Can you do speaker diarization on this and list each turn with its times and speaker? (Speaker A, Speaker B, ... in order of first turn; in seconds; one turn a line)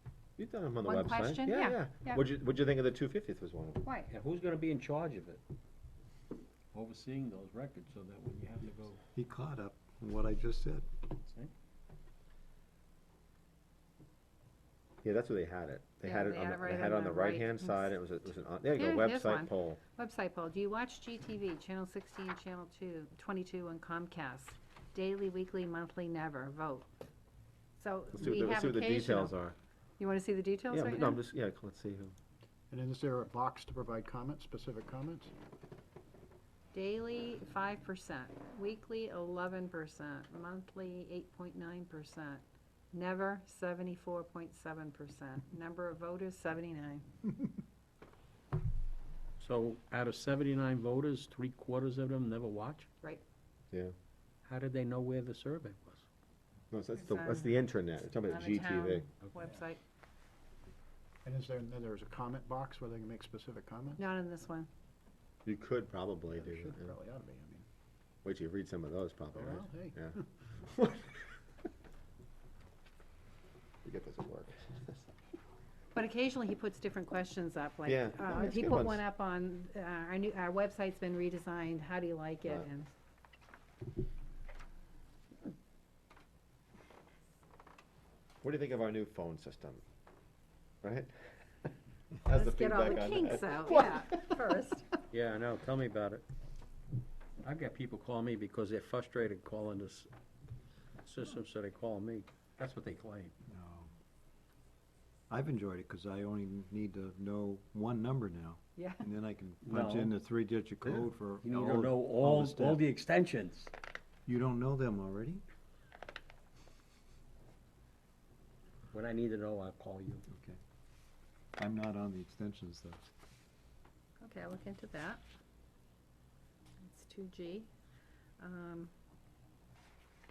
Speaker A: 0.4-3.8
Speaker B: 0.8-2.2
Speaker B: 3.8-4.1
Speaker C: 4.1-5.4
Speaker C: 6.7-9.0
Speaker D: 9.2-10.9
Speaker C: 11.2-11.5
Speaker A: 15.0-19.8
Speaker B: 16.0-17.9
Speaker B: 18.8-26.9
Speaker B: 27.8-29.3
Speaker A: 28.1-29.6
Speaker B: 30.0-31.2
Speaker A: 30.7-32.1
Speaker E: 32.7-35.3
Speaker B: 36.7-47.1
Speaker C: 49.4-52.9
Speaker C: 54.4-56.1
Speaker A: 56.7-59.1
Speaker B: 57.0-57.6
Speaker B: 58.3-59.8
Speaker E: 61.2-64.0
Speaker B: 64.0-64.7
Speaker A: 65.5-66.9
Speaker E: 66.3-67.7
Speaker A: 68.2-71.3
Speaker E: 69.3-70.0
Speaker A: 73.8-75.1
Speaker B: 75.9-82.9
Speaker A: 77.9-79.0
Speaker A: 88.4-89.8
Speaker A: 90.8-91.7
Speaker A: 92.3-94.4
Speaker B: 92.3-95.0
Speaker C: 95.1-96.2
Speaker C: 97.4-100.1
Speaker C: 101.0-103.3
Speaker D: 103.5-103.9
Speaker D: 105.3-112.8
Speaker B: 108.8-109.0
Speaker C: 109.7-110.1
Speaker C: 111.4-113.7
Speaker D: 114.3-115.4
Speaker C: 118.9-120.2
Speaker D: 120.3-120.6
Speaker D: 121.6-123.0
Speaker B: 124.2-125.2
Speaker B: 126.8-127.7
Speaker B: 128.4-128.9